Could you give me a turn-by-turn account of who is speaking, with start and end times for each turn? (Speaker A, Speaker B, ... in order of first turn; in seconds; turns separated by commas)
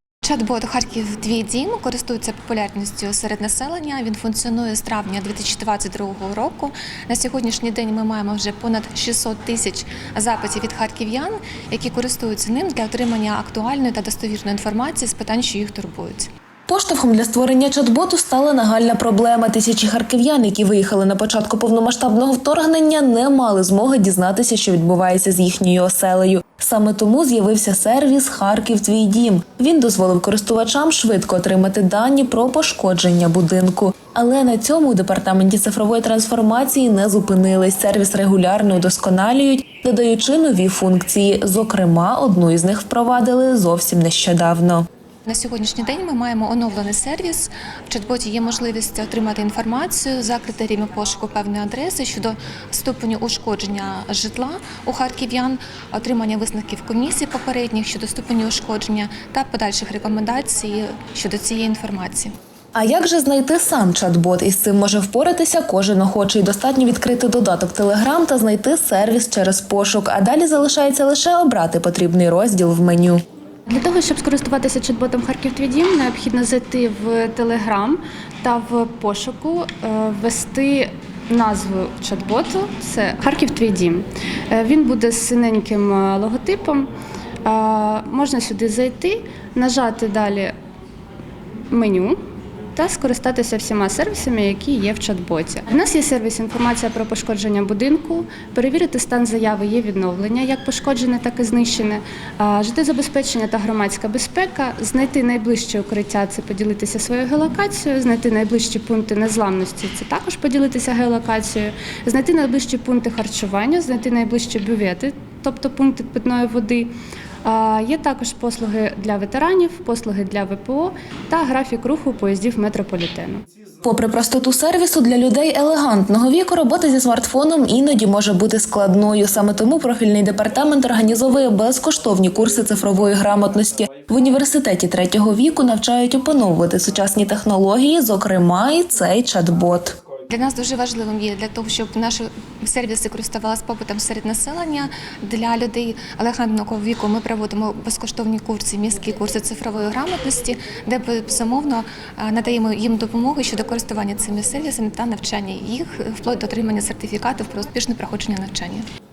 Speaker A: 0.2-16.3, Speaker B: 16.7-44.9, Speaker A: 45.2-62.3, Speaker B: 62.7-73.2, Speaker C: 73.7-86.9, Speaker C: 87.4-90.5, Speaker C: 91.7-92.2, Speaker C: 92.7-116.9, Speaker C: 117.4-123.4, Speaker B: 123.8-140.0, Speaker A: 140.3-158.8